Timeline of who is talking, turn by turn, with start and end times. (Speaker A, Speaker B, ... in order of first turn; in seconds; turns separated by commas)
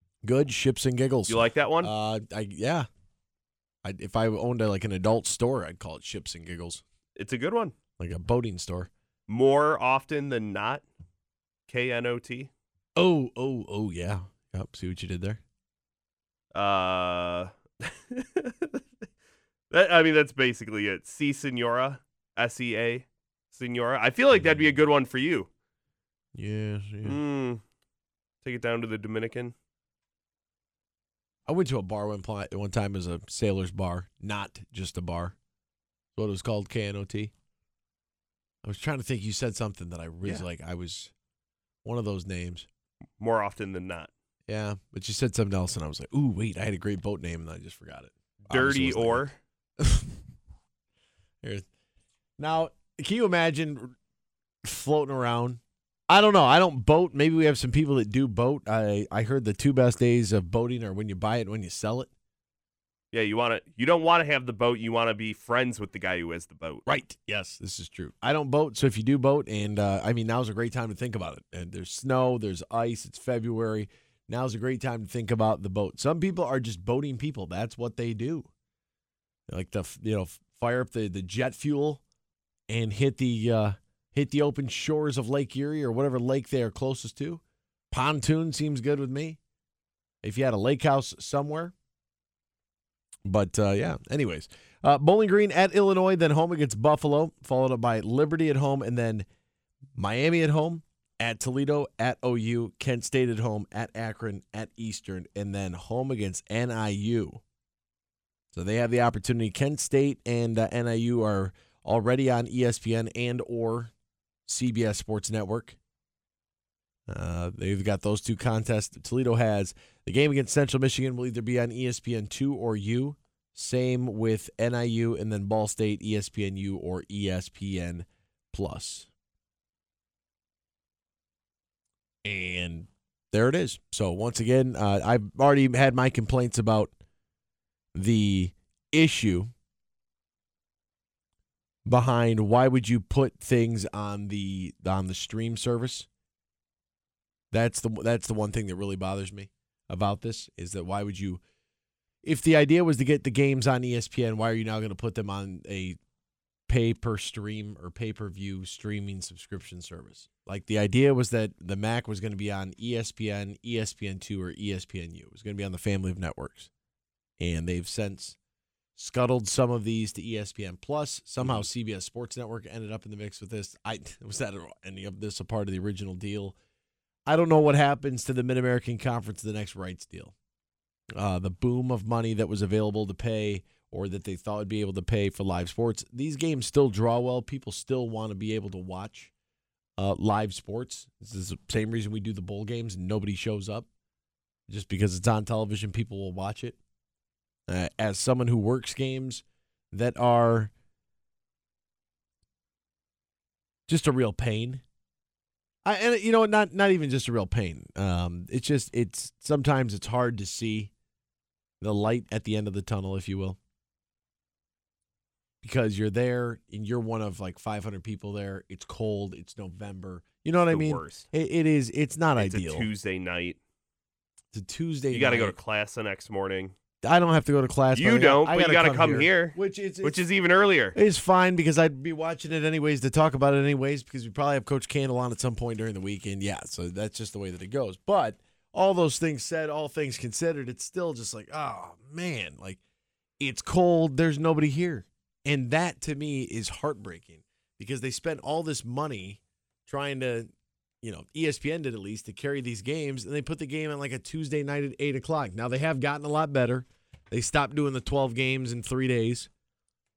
Speaker A: 0.2-2.9, Speaker B: 1.3-1.9, Speaker A: 3.8-6.8, Speaker B: 7.2-7.7, Speaker A: 8.0-8.9, Speaker B: 9.3-10.8, Speaker B: 11.7-12.5, Speaker A: 12.9-15.4, Speaker B: 16.5-18.8, Speaker B: 19.7-25.5, Speaker A: 26.3-27.2, Speaker B: 27.0-27.6, Speaker B: 28.4-29.5, Speaker A: 31.4-35.3, Speaker A: 36.1-37.3, Speaker A: 38.6-41.1, Speaker A: 41.8-42.7, Speaker B: 43.2-44.1, Speaker A: 44.5-49.2, Speaker B: 48.5-49.4, Speaker A: 49.8-50.2, Speaker A: 52.4-53.9, Speaker A: 54.6-62.1, Speaker B: 63.1-66.8, Speaker A: 66.8-78.5, Speaker A: 79.5-82.0, Speaker A: 82.7-89.4, Speaker A: 90.2-91.7, Speaker A: 93.2-99.3, Speaker A: 99.9-107.4, Speaker A: 108.5-113.9, Speaker A: 114.5-115.8, Speaker A: 117.1-129.1, Speaker A: 132.2-136.9, Speaker A: 137.9-139.5, Speaker A: 141.8-146.1, Speaker A: 147.5-151.4, Speaker A: 152.2-156.0, Speaker A: 156.7-166.7, Speaker A: 167.4-168.4, Speaker A: 168.9-176.6, Speaker B: 171.4-171.7, Speaker A: 177.3-180.3, Speaker A: 181.2-189.3, Speaker A: 190.0-193.9, Speaker A: 194.7-196.8, Speaker A: 197.7-200.7, Speaker A: 203.9-204.8, Speaker A: 205.8-210.9, Speaker A: 211.8-213.6, Speaker A: 215.6-222.9, Speaker B: 220.7-221.2, Speaker B: 222.4-223.6, Speaker A: 224.5-225.6, Speaker B: 225.1-226.7, Speaker A: 227.0-230.2, Speaker B: 227.9-230.9, Speaker A: 230.9-242.8, Speaker A: 243.4-250.5, Speaker A: 251.0-259.5